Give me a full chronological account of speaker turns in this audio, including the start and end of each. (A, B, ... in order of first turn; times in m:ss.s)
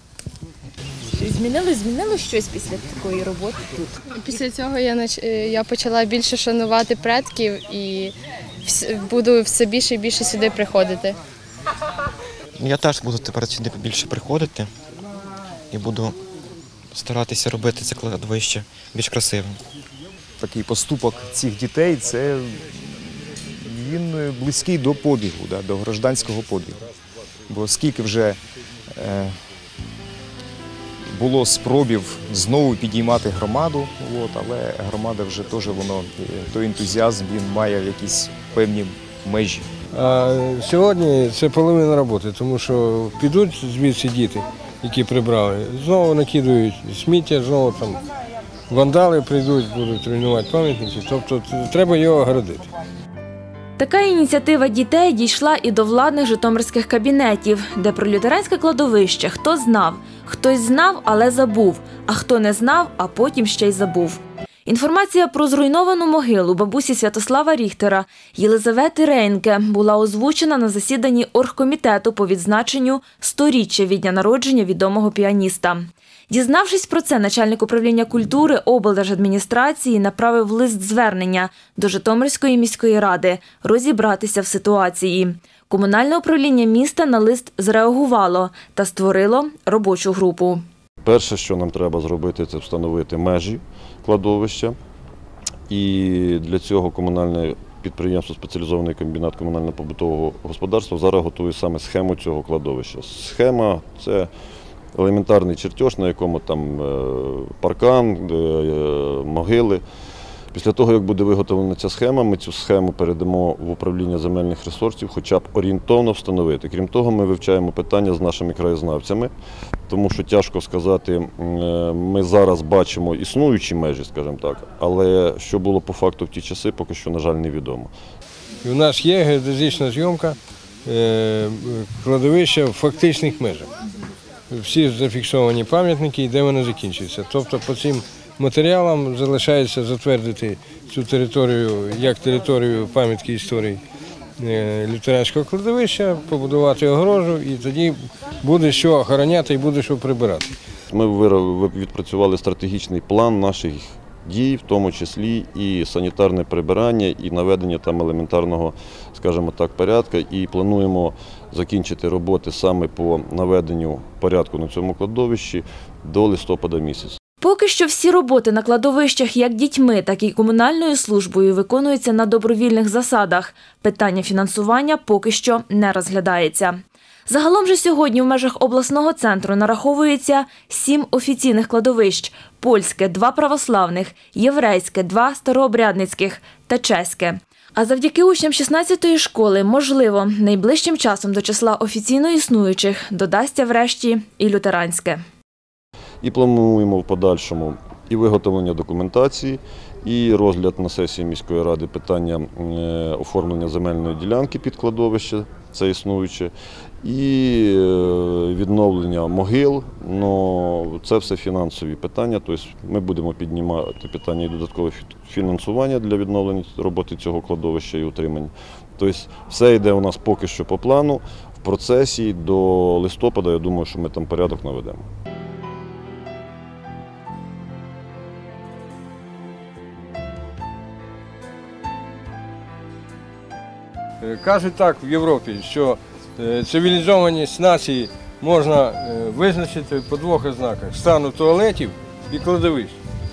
0:01.1-0:04.1 A
0:04.1-0:11.2 B
0:12.6-0:14.7 C
0:15.7-0:16.2 C
0:16.9-0:19.6 C
0:20.4-0:26.8 D
0:27.5-0:28.4 D
0:28.9-0:29.3 D
0:31.1-0:39.7 D
0:39.9-0:48.0 E
0:48.7-0:52.7 E
0:53.8-1:30.6 A
1:31.0-1:34.8 F
1:35.7-1:44.3 F
1:45.0-1:49.8 F
1:50.5-1:59.3 F
1:59.9-2:07.9 F
2:08.6-2:13.7 E
2:14.5-2:23.8 E
2:24.4-2:30.5 E
2:30.9-2:47.2 F
2:47.4-3:15.2 A
3:16.2-3:45.1 F
3:54.2-4:03.0 E